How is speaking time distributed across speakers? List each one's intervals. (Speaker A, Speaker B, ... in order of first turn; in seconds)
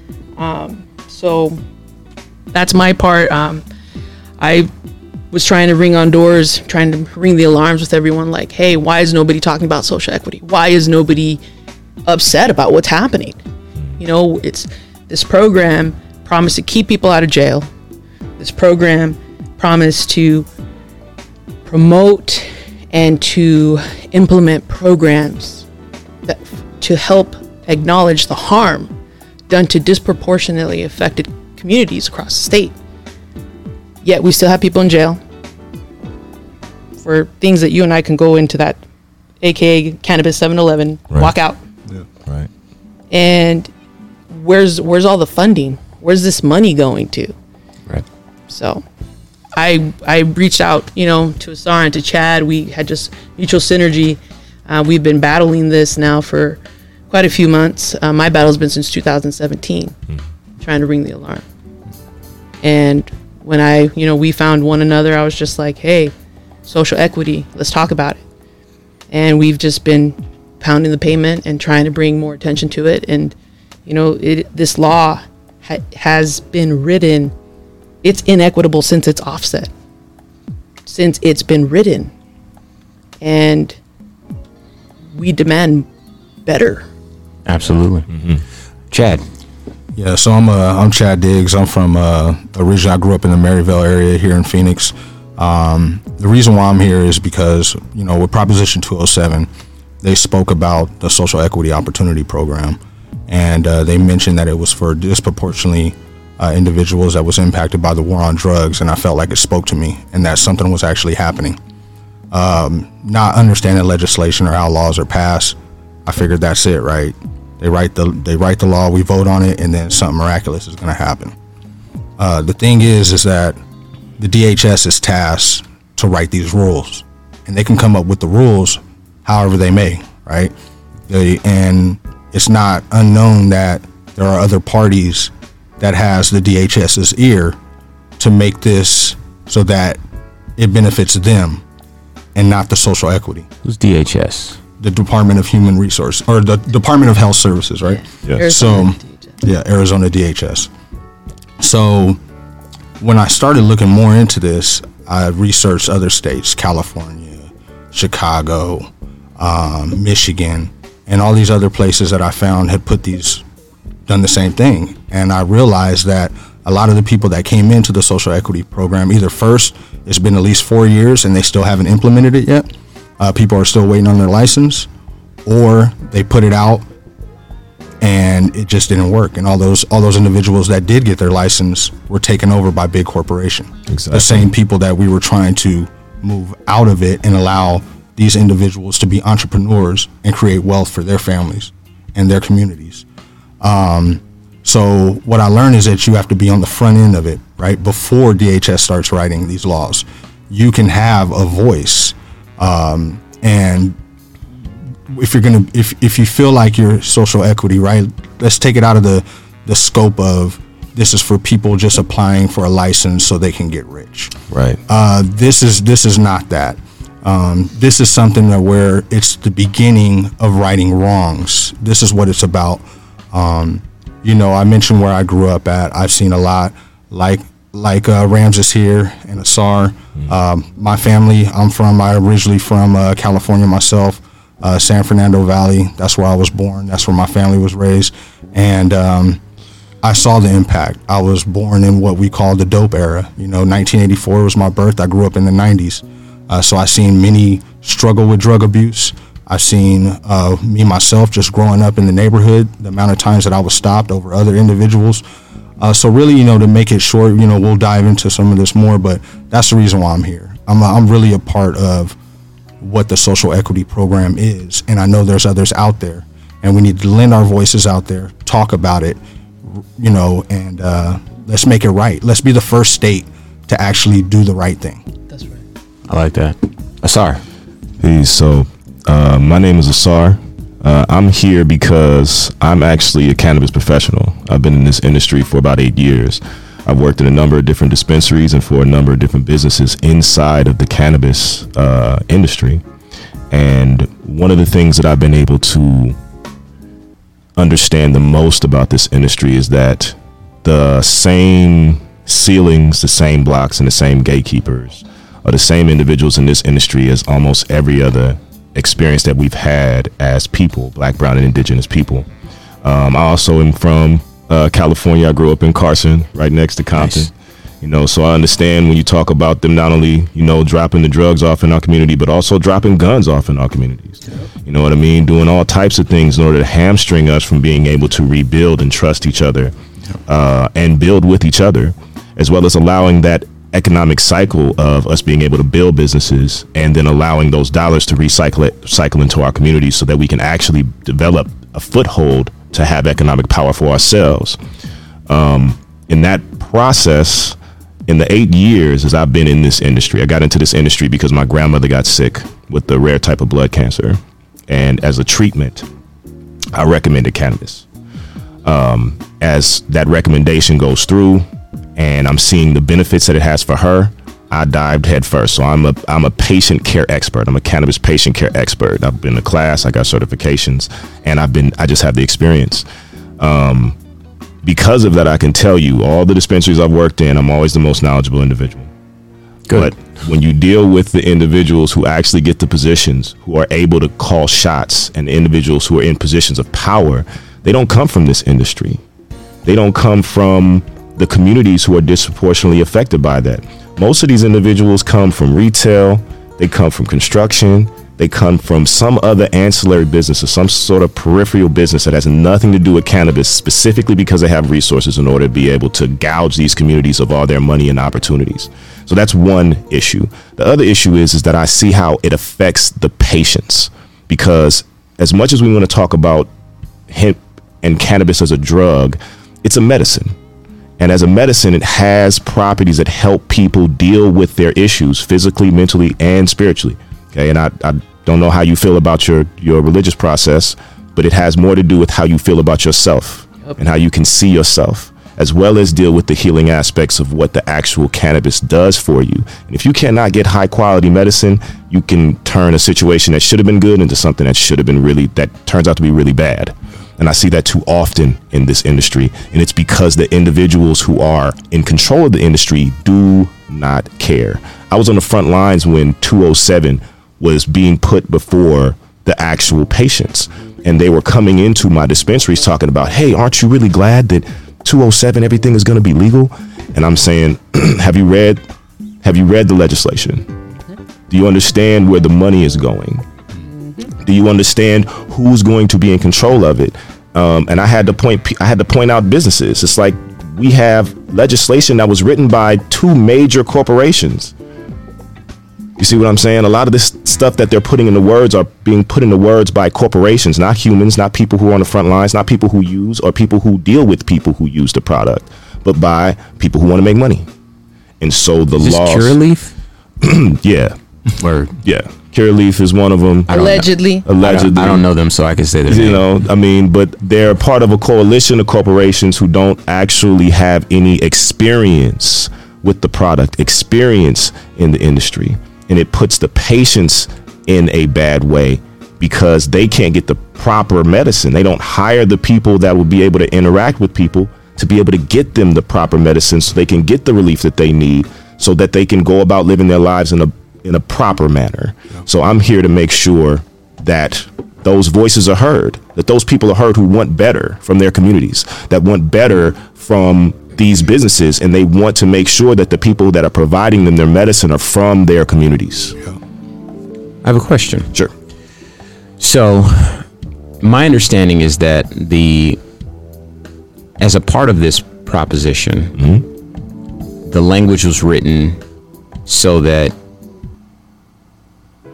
Speaker A: 0.4-1.6, 2.5-3.6, 4.4-4.7, 5.3-11.4, 12.1-13.4, 14.0-17.7, 18.4-20.5, 21.7-25.7, 26.3-28.9, 29.5-32.7, 34.0-35.2, 37.0-38.8, 39.4-41.6, 43.1-43.7, 44.3-47.3, 48.5-48.8, 49.5-56.6, 57.1-60.0, 60.6-61.5, 62.6-66.1, 66.7-68.2, 69.1-73.3, 73.9-77.3, 78.0-79.7, 80.9-82.1, 83.2-83.8, 85.1-85.9, 86.5-86.9, 147.9-149.3, 503.5-504.3
Speaker B: 87.5-88.1, 88.9-89.2, 143.6-144.6, 276.1-277.4, 317.0-317.2, 498.8-499.7, 501.4-501.8, 503.5-506.2, 547.4-548.1, 549.4-550.3, 550.8-552.8, 554.2-556.1, 557.5-558.8, 559.5-560.1
Speaker C: 88.1-88.4, 183.9-184.5, 214.5-214.8, 278.0-292.8, 293.5-296.2, 297.6-312.3, 312.8-329.7, 330.3-344.6, 345.3-347.6, 348.1-355.9, 356.7-357.9, 358.6-372.9, 373.4-374.0, 374.6-378.9, 379.7-389.0, 389.6-416.5, 417.1-420.4, 421.0-468.6, 469.2-470.5, 471.3-473.2, 474.2-484.5, 486.0-497.5, 498.2-499.4, 500.2-501.0, 501.8-503.6, 504.2-505.0, 505.9-546.2, 556.2-556.5
Speaker D: 90.0-99.5, 100.0-111.6, 112.3-121.3, 122.2-123.6, 124.2-130.5, 131.1-137.6, 138.2-140.0, 140.6-141.6, 142.3-143.5, 144.8-150.7, 151.6-152.2, 153.0-163.4, 164.1-172.7, 173.2-174.9, 175.5-176.8, 178.0-193.1, 193.6-204.0, 205.1-214.3, 214.9-239.4, 240.0-255.2, 255.8-262.2, 262.8-275.0